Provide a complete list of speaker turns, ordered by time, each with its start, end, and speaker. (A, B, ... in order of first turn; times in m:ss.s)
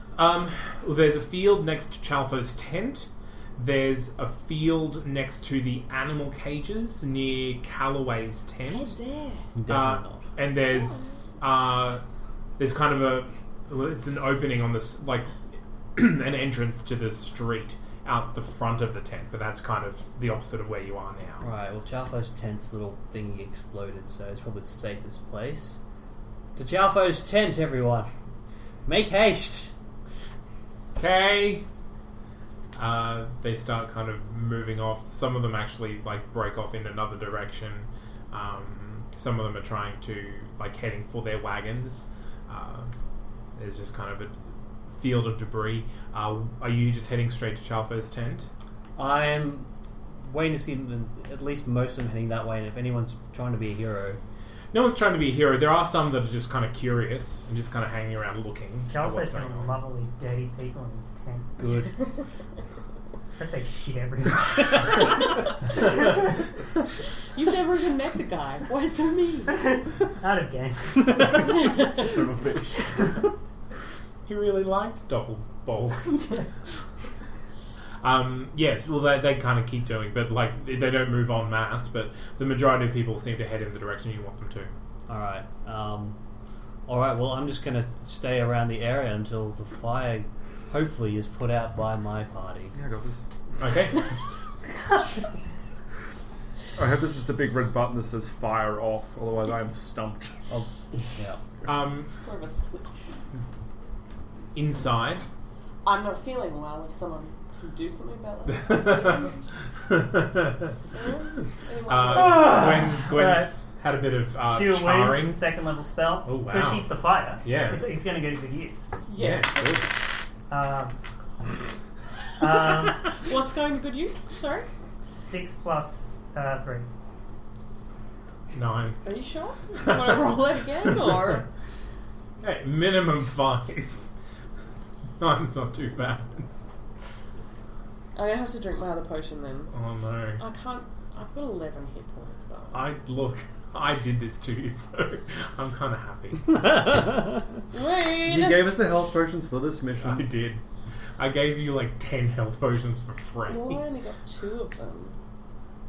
0:00.2-0:09.0 A
0:08.6-0:09.5 B
0:09.6-0:10.3 C
0:09.7-0:12.0 A
0:10.6-0:11.3 B
0:12.6-0:15.3 A
0:16.0-0:21.4 A
0:21.4-0:25.8 C
0:26.6-0:28.1 C
0:28.9-0:29.7 C
0:31.0-0:31.6 A
0:32.8-0:42.9 A
0:43.6-0:44.4 A
0:45.0-0:48.5 A
0:49.0-0:54.2 C
0:54.7-0:59.8 A
0:58.9-1:01.6 D
1:01.6-1:01.9 C
1:03.3-1:05.2 D
1:07.3-1:09.6 B
1:09.6-1:11.3 D
1:11.2-1:12.9 E
1:11.4-1:11.8 B
1:14.3-1:16.2 A
1:16.2-1:16.4 D
1:18.0-1:24.7 A
1:25.1-1:26.2 C
1:26.9-1:32.8 C
1:32.7-1:33.3 E
1:33.6-1:34.1 A
1:36.8-1:40.7 E
1:41.6-1:42.1 A
1:42.2-1:43.0 B
1:44.5-1:45.2 A
1:45.8-1:49.4 B
1:48.5-1:49.3 A
1:49.9-1:50.8 A
1:50.9-1:52.6 B
1:51.9-1:55.5 A
1:52.1-1:53.6 D
1:54.4-1:59.0 D
1:56.2-1:57.9 A
1:59.0-1:59.9 B
1:59.1-1:59.9 A
2:00.5-2:01.0 D
2:02.4-2:03.1 D
2:02.4-2:04.7 B
2:05.2-2:06.9 D
2:08.5-2:09.0 A
2:09.0-2:11.5 B
2:09.8-2:10.2 A
2:12.4-2:14.0 A
2:15.2-2:16.5 A
2:18.2-2:19.7 B
2:19.7-2:20.4 A
2:20.4-2:22.9 B
2:22.7-2:26.9 A
2:26.9-2:27.4 C
2:27.7-2:28.7 B
2:28.1-2:30.4 E
2:30.0-2:30.6 A
2:31.2-2:33.8 A
2:33.5-2:35.2 B